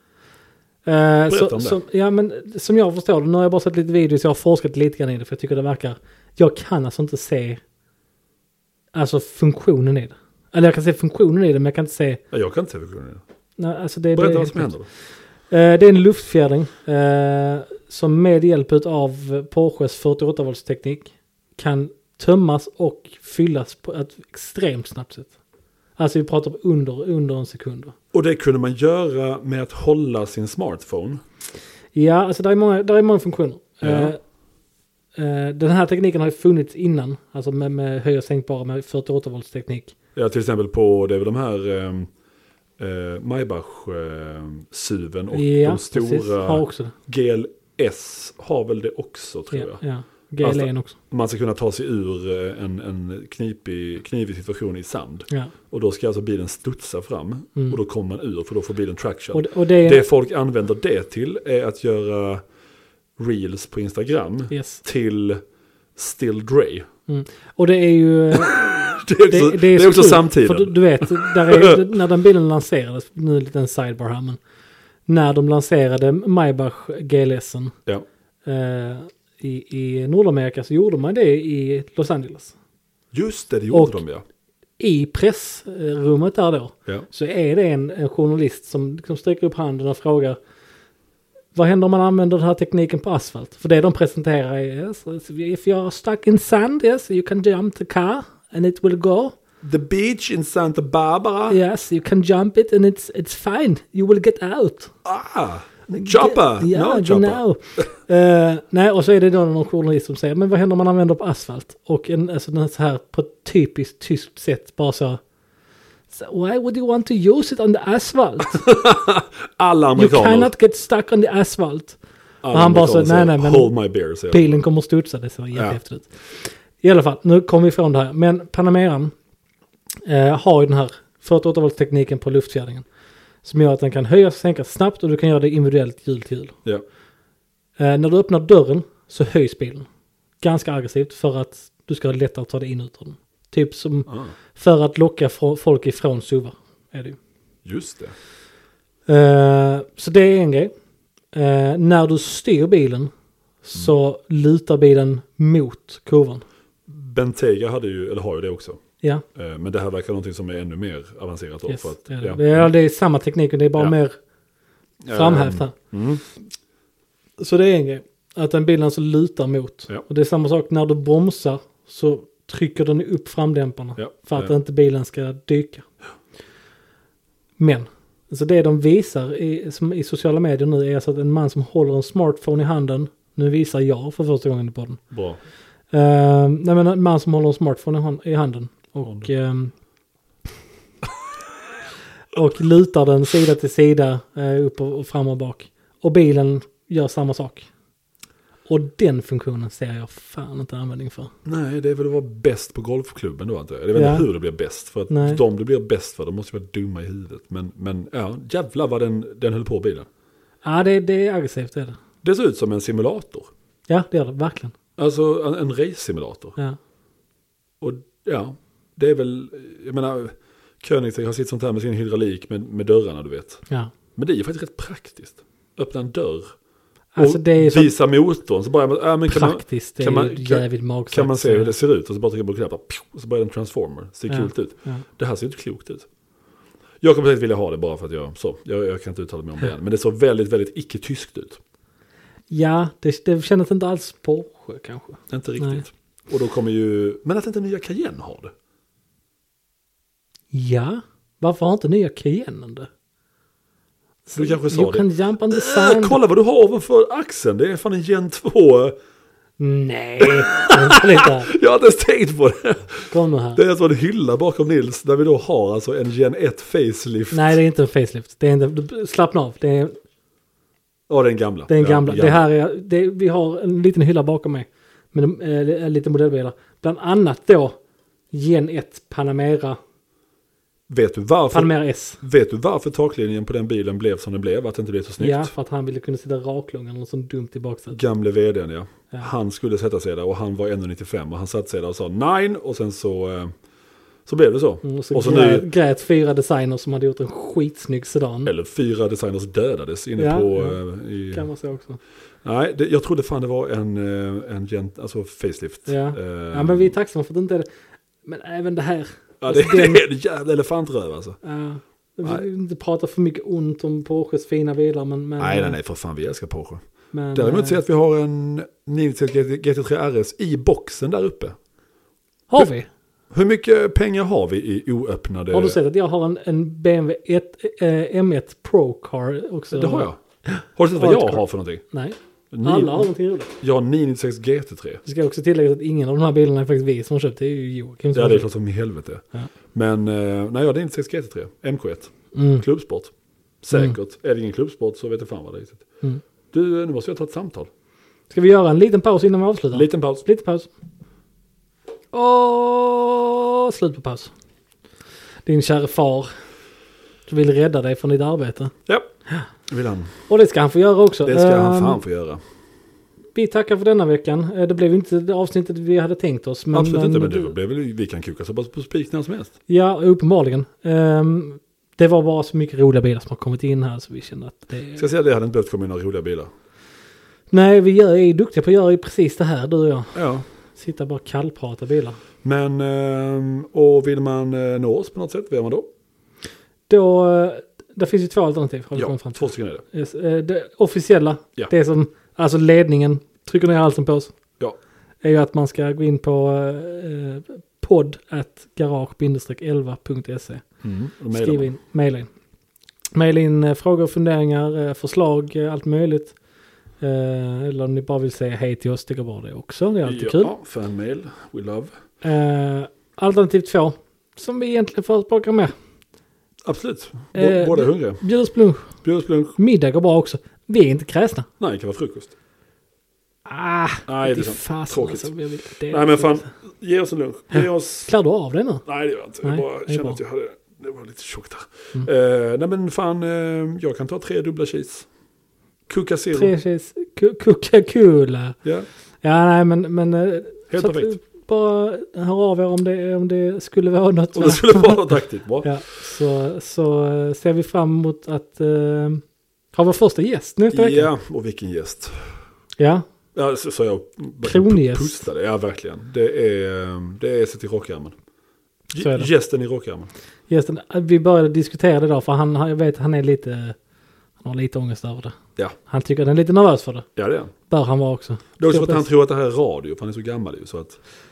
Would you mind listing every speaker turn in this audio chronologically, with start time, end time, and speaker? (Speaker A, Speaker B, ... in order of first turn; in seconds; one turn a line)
Speaker A: 0.8-7.6
Speaker B: 1.3-1.8
Speaker A: 8.9-12.2
Speaker B: 12.3-13.2
Speaker A: 13.6-14.7
Speaker B: 14.1-14.9
Speaker A: 15.5-25.3
Speaker A: 26.0-27.9
Speaker B: 28.1-31.2
Speaker A: 31.9-34.2
Speaker B: 33.8-34.1
Speaker A: 35.1-39.9
Speaker B: 40.1-42.1
Speaker B: 42.8-49.8
Speaker A: 45.3-46.9
Speaker A: 49.5-50.9
Speaker B: 50.4-62.4
Speaker A: 59.3-60.0
Speaker B: 63.2-65.4
Speaker A: 64.5-64.8
Speaker B: 66.0-66.8
Speaker A: 67.1-74.4
Speaker B: 68.3-71.8
Speaker A: 75.1-77.8
Speaker A: 78.4-82.5
Speaker B: 83.1-84.2
Speaker A: 83.7-84.0
Speaker A: 84.8-90.4
Speaker A: 91.5-99.3
Speaker B: 99.6-101.6
Speaker A: 101.5-104.9
Speaker B: 105.0-107.9
Speaker A: 106.0-115.2
Speaker A: 116.1-118.6
Speaker B: 118.5-120.5
Speaker A: 120.0-122.0
Speaker B: 122.4-124.6
Speaker A: 122.5-123.7
Speaker A: 124.3-129.1
Speaker A: 130.0-132.8
Speaker A: 133.4-136.6
Speaker A: 137.8-139.9
Speaker A: 140.4-147.2
Speaker B: 144.1-144.3
Speaker B: 147.6-148.1
Speaker A: 149.1-150.7
Speaker A: 151.3-153.1
Speaker A: 153.6-156.4
Speaker B: 156.9-158.8
Speaker B: 159.3-162.7
Speaker A: 161.7-164.2
Speaker B: 165.0-166.2
Speaker A: 165.1-165.7
Speaker A: 167.4-175.8
Speaker B: 173.9-174.5
Speaker A: 177.6-185.0
Speaker B: 185.1-185.4
Speaker A: 185.9-189.7
Speaker B: 189.0-189.3
Speaker A: 192.3-197.7
Speaker A: 198.7-201.3
Speaker B: 201.4-210.1
Speaker A: 203.9-204.3
Speaker A: 205.1-205.4
Speaker A: 210.6-212.0
Speaker B: 212.2-213.5
Speaker A: 213.9-214.7
Speaker B: 215.0-216.6
Speaker B: 217.8-223.6
Speaker B: 224.1-226.5
Speaker A: 227.1-227.9
Speaker B: 227.2-236.1
Speaker A: 229.3-231.7
Speaker A: 234.3-235.0
Speaker B: 237.0-241.6
Speaker A: 242.5-245.8
Speaker B: 245.3-248.5
Speaker A: 250.5-252.9
Speaker A: 254.2-256.2
Speaker B: 254.3-258.9
Speaker A: 259.6-261.5
Speaker B: 260.2-267.6
Speaker A: 263.1-263.6
Speaker A: 267.3-269.9
Speaker B: 271.1-272.4
Speaker A: 271.7-277.8
Speaker A: 278.3-279.8
Speaker B: 280.9-285.5
Speaker A: 281.5-282.2
Speaker A: 285.2-288.0
Speaker B: 287.9-293.5
Speaker B: 294.2-295.7
Speaker A: 294.8-298.5
Speaker B: 298.4-301.5
Speaker A: 300.2-300.8
Speaker A: 301.3-302.0
Speaker B: 302.4-306.9
Speaker A: 305.9-307.6
Speaker A: 308.2-310.0
Speaker B: 309.4-311.4
Speaker A: 311.4-315.8
Speaker B: 315.4-316.8
Speaker A: 317.1-317.8
Speaker B: 317.3-321.6
Speaker A: 322.5-322.9
Speaker B: 323.3-325.8
Speaker A: 325.5-333.5
Speaker B: 329.7-330.2
Speaker B: 330.8-331.8
Speaker B: 332.5-333.1
Speaker B: 333.6-335.0
Speaker A: 335.0-338.5
Speaker B: 338.1-345.8
Speaker A: 342.3-342.6
Speaker B: 346.5-347.7
Speaker A: 348.3-350.7
Speaker B: 349.7-350.2
Speaker A: 352.1-354.3
Speaker A: 355.4-356.3
Speaker A: 357.3-358.7
Speaker B: 359.7-360.1
Speaker A: 360.3-362.0
Speaker B: 361.2-362.4
Speaker A: 363.3-367.5
Speaker B: 366.7-369.5
Speaker A: 369.7-375.1
Speaker B: 374.9-376.5
Speaker A: 377.5-380.2
Speaker B: 380.1-380.4
Speaker A: 380.8-382.2
Speaker B: 382.4-385.9
Speaker A: 386.9-394.4
Speaker B: 388.9-389.8
Speaker A: 395.2-400.6
Speaker B: 400.8-401.7
Speaker A: 401.3-402.3
Speaker A: 403.1-406.3
Speaker A: 407.0-410.5
Speaker B: 410.0-411.9
Speaker A: 412.2-415.7
Speaker B: 416.6-418.2
Speaker A: 417.3-418.9
Speaker B: 419.0-419.6
Speaker A: 419.6-421.4
Speaker B: 421.6-422.3
Speaker A: 423.4-426.5
Speaker B: 424.1-425.3
Speaker B: 425.9-428.1
Speaker A: 427.5-428.8
Speaker B: 428.9-435.1
Speaker A: 429.4-430.2
Speaker B: 435.9-436.5
Speaker A: 436.3-438.6
Speaker A: 439.2-449.2
Speaker B: 440.7-441.1
Speaker B: 444.3-445.8
Speaker A: 449.7-451.1
Speaker B: 450.7-452.3
Speaker A: 452.8-453.0
Speaker B: 453.3-458.2
Speaker A: 454.4-455.2
Speaker B: 458.9-460.1
Speaker A: 458.9-459.3
Speaker A: 460.5-463.8
Speaker A: 464.4-467.1
Speaker B: 467.1-467.5
Speaker A: 467.7-469.0
Speaker B: 468.6-471.0